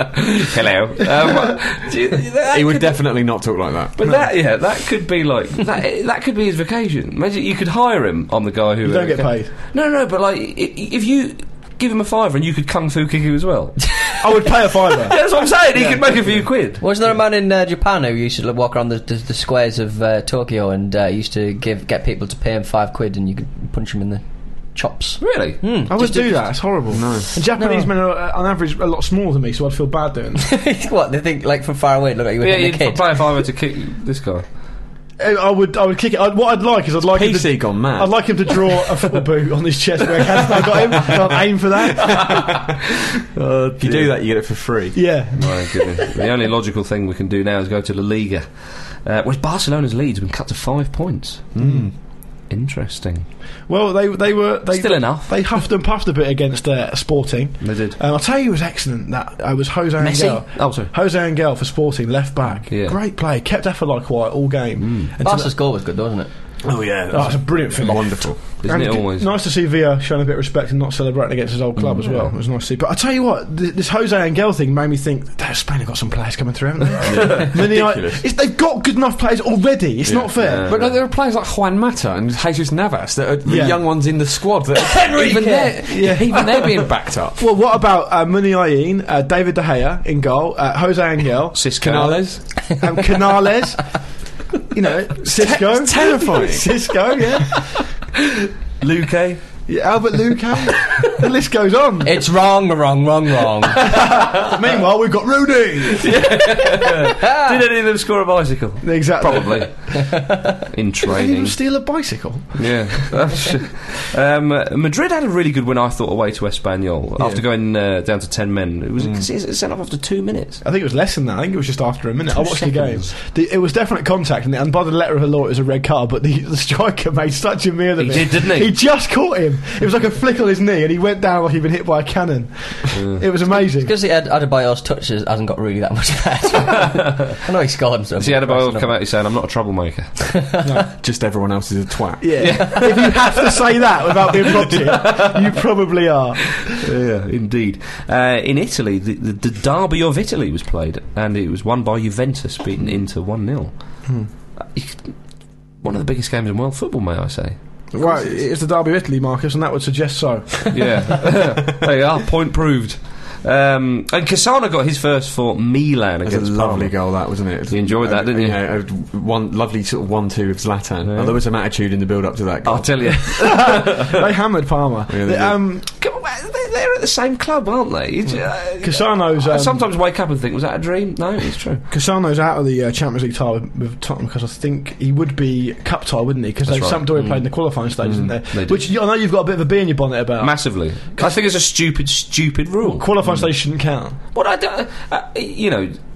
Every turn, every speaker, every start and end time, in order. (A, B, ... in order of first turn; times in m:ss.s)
0:00.3-0:03.0 A
0:02.5-0:04.0 B
0:04.0-0:16.8 A
0:08.8-0:09.5 C
0:14.2-0:15.2 C
0:16.8-0:24.2 D
0:24.7-0:26.6 D
0:25.2-0:25.6 A
0:25.9-0:30.5 C
0:26.9-0:27.3 B
0:27.6-0:27.9 D
0:30.4-0:33.2 D
0:32.4-0:34.4 A
0:35.2-0:42.6 C
0:37.1-0:38.5 B
0:42.1-0:42.5 B
0:43.4-0:44.1 A
0:43.8-0:45.0 B
0:44.9-0:46.0 C
0:45.4-0:51.6 A
0:51.6-0:51.9 B
0:51.6-0:51.9 C
0:52.5-0:53.3 A
0:53.7-1:05.5 C
0:54.7-0:55.5 A
0:57.6-0:58.0 A
1:00.0-1:00.9 A
1:02.7-1:03.0 A
1:04.8-1:05.1 A
1:05.2-1:06.3 D
1:06.6-1:08.4 B
1:07.1-1:20.7 C
1:08.6-1:09.3 A
1:12.0-1:12.3 A
1:17.0-1:18.2 B
1:20.0-1:27.4 B
1:20.4-1:21.0 A
1:23.4-1:23.8 C
1:24.8-1:26.2 D
1:25.9-1:26.5 C
1:27.4-1:34.0 C
1:31.5-1:32.5 A
1:31.8-1:32.4 B
1:34.7-1:37.8 C
1:35.2-1:36.7 B
1:38.8-1:39.4 A
1:39.7-1:42.2 C
1:42.0-1:43.9 D
1:43.9-1:46.4 C
1:46.0-1:51.6 A
1:47.2-1:47.5 D
1:48.8-1:49.7 C
1:51.0-1:53.2 C
1:52.6-2:00.6 A
1:59.0-1:59.3 B
2:00.6-2:13.9 C
2:02.5-2:03.1 A
2:08.0-2:08.7 A
2:12.9-2:13.2 A
2:13.5-2:19.0 D
2:18.2-2:20.4 A
2:20.6-2:20.9 C
2:21.0-2:22.8 B
2:22.2-2:26.8 C
2:22.4-2:23.5 A
2:24.3-2:25.5 A
2:26.7-2:34.1 A
2:34.7-2:35.2 A
2:35.8-2:37.6 A
2:37.9-2:41.1 C
2:38.0-2:38.4 B
2:40.7-2:48.7 A
2:46.2-2:52.9 B
2:51.0-2:51.4 A
2:52.6-2:54.3 A
2:53.3-2:55.9 C
2:55.1-2:55.6 B
2:55.9-3:01.8 A
2:58.8-2:59.8 C
3:01.9-3:11.3 C
3:06.7-3:07.4 A
3:08.0-3:08.4 B
3:08.5-3:08.8 A
3:10.4-3:13.5 A
3:12.8-3:14.2 C
3:14.3-3:16.0 A